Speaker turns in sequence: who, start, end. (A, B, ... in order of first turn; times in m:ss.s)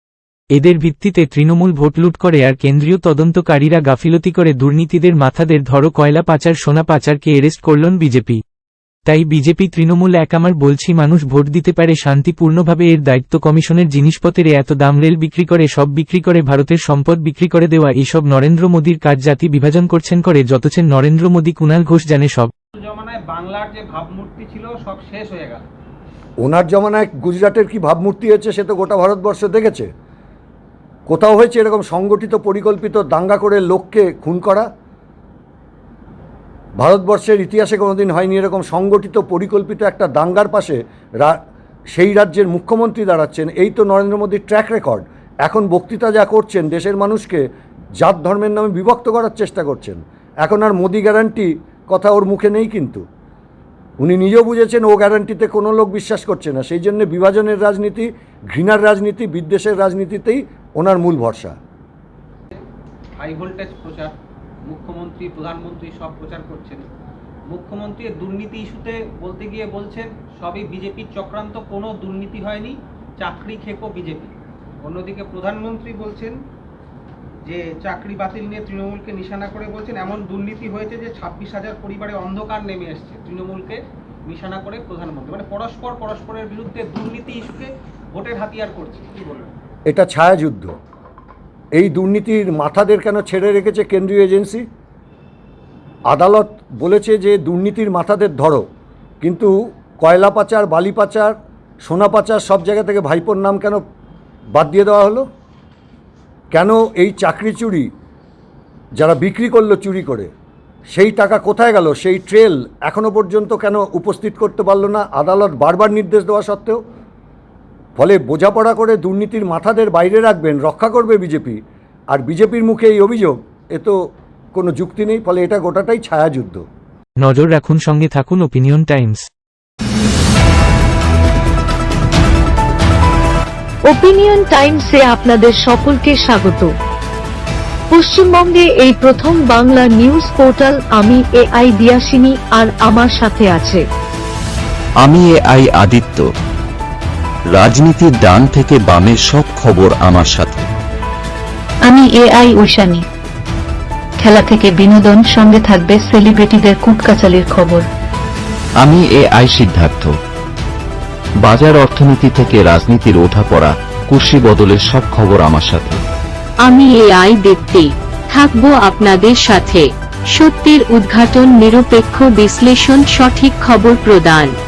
0:00.5-0:08.4 A
0:09.1-0:22.5 A
0:22.8-0:25.6 B
0:26.4-0:29.9 C
0:31.1-0:34.7 C
0:36.8-0:41.4 C
0:41.9-0:47.4 C
0:48.0-0:53.0 C
0:54.0-1:01.6 C
1:03.2-1:06.9 B
1:07.5-1:16.4 B
1:17.4-1:29.5 B
1:29.9-1:30.7 C
1:31.8-1:34.6 C
1:36.1-1:38.6 C
1:39.2-1:43.8 C
1:44.5-1:45.2 C
1:46.5-1:47.9 C
1:49.0-1:50.3 C
1:50.9-1:56.8 C
1:58.0-2:01.6 C
2:02.1-2:03.9 C
2:04.6-2:06.6 C
2:07.2-2:09.2 A
2:13.8-2:16.7 D
2:17.9-2:23.8 D
2:25.0-2:26.2 E
2:27.5-2:30.7 E
2:31.8-2:33.1 F
2:34.2-2:37.9 F
2:38.8-2:40.1 E
2:41.4-2:46.0 E
2:46.6-2:54.5 G